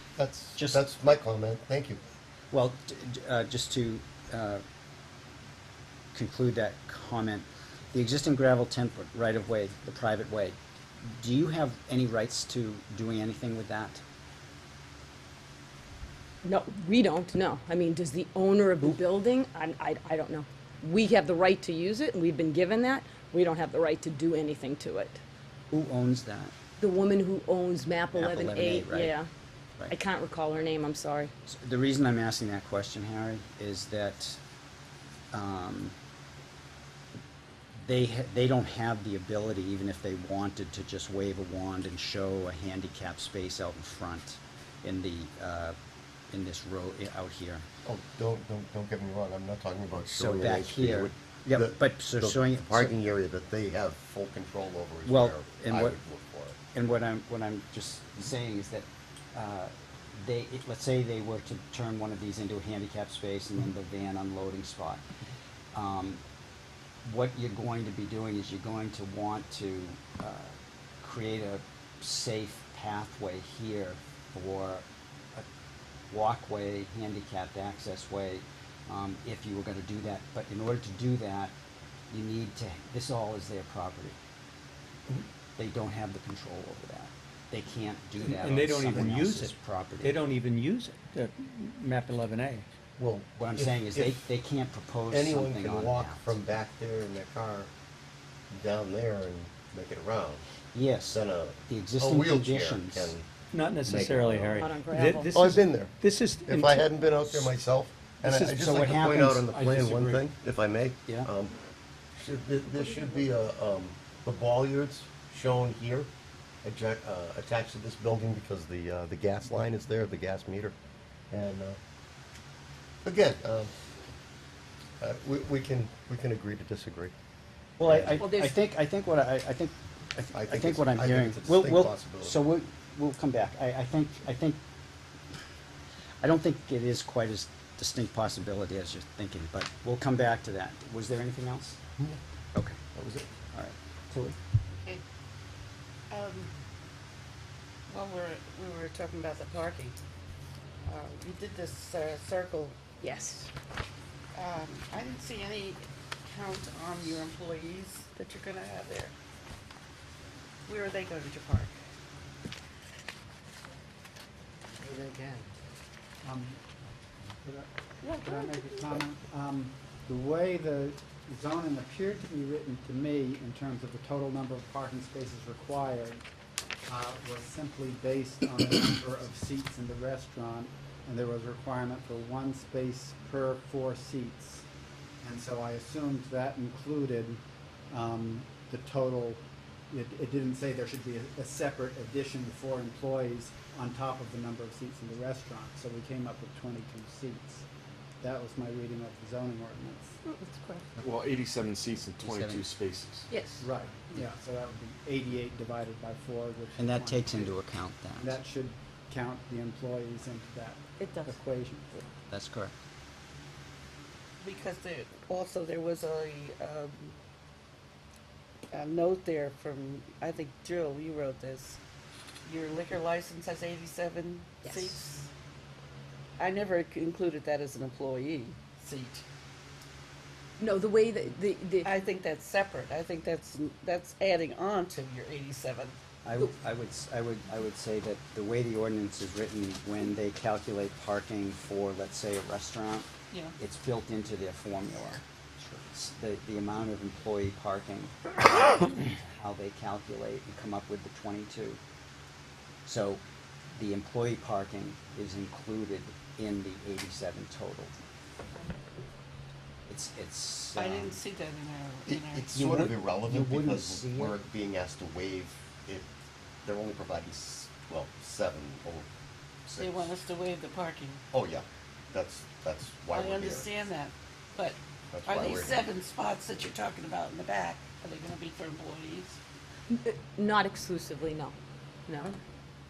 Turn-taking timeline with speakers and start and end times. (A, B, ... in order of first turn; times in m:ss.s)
0:00.2-0:02.0 A
0:00.6-0:00.9 B
0:02.5-0:04.6 B
0:06.1-0:14.0 B
0:16.4-0:25.2 C
0:25.7-0:26.5 B
0:26.8-0:29.3 C
0:28.1-0:29.1 B
0:29.9-0:31.3 C
0:31.5-0:34.4 B
0:35.3-0:35.9 B
0:37.8-0:45.8 B
0:46.3-0:47.6 B
0:47.8-0:56.6 A
0:50.0-0:52.9 B
0:55.0-0:56.0 B
0:56.7-1:05.0 B
1:05.7-1:06.2 B
1:07.0-1:15.4 B
1:16.1-1:21.5 B
1:22.1-1:24.2 B
1:25.6-1:30.2 B
1:28.2-1:32.6 D
1:33.0-1:34.2 A
1:33.0-1:36.4 B
1:35.1-1:37.7 A
1:38.5-1:40.4 A
1:40.7-1:43.2 B
1:41.1-1:44.6 A
1:43.5-1:47.5 D
1:44.6-1:45.3 C
1:45.3-1:51.5 A
1:48.2-1:50.2 D
1:48.6-1:49.4 B
1:52.1-1:56.1 A
1:56.6-2:00.7 A
2:01.3-2:01.8 A
2:03.0-2:03.7 A
2:05.0-2:07.1 A
2:07.8-2:14.6 B
2:07.9-2:08.1 A
2:10.3-2:12.4 A
2:16.2-2:21.8 B
2:22.5-2:22.8 B
2:22.9-2:23.2 A
2:23.5-2:24.4 B
2:24.7-2:25.0 E
2:26.1-2:26.5 E
2:27.9-2:30.0 E
2:30.8-2:32.8 E
2:33.0-2:33.5 C
2:34.3-2:39.1 E
2:40.7-2:41.7 E
2:44.9-2:45.4 F
2:46.2-2:46.6 F
2:47.4-2:56.2 F
2:56.9-3:04.6 F
3:05.2-3:17.6 F
3:18.2-3:20.2 F
3:20.2-3:21.0 C
3:21.0-3:23.3 G
3:22.2-3:22.6 B
3:23.3-3:23.7 C
3:23.6-3:27.5 F
3:26.8-3:28.4 B
3:28.2-3:32.1 F
3:31.0-3:31.4 C
3:32.3-3:32.7 B
3:34.4-3:37.2 E
3:38.7-3:41.8 E
3:42.4-3:45.3 E
3:44.6-3:45.0 C
3:46.4-3:49.2 E
3:50.6-3:51.9 C
3:51.8-3:56.0 E
3:56.2-4:03.1 B
4:03.6-4:11.8 B
4:12.8-4:13.2 B
4:13.7-4:17.9 B
4:19.9-4:21.1 B
4:20.7-4:22.5 E
4:22.1-4:26.1 A
4:22.5-4:24.4 B
4:26.6-4:29.1 A
4:29.6-4:30.1 A
4:29.8-4:31.2 E
4:31.3-4:33.7 A
4:33.1-4:39.4 E
4:35.1-4:35.8 A
4:39.9-4:41.5 C
4:42.1-4:42.4 C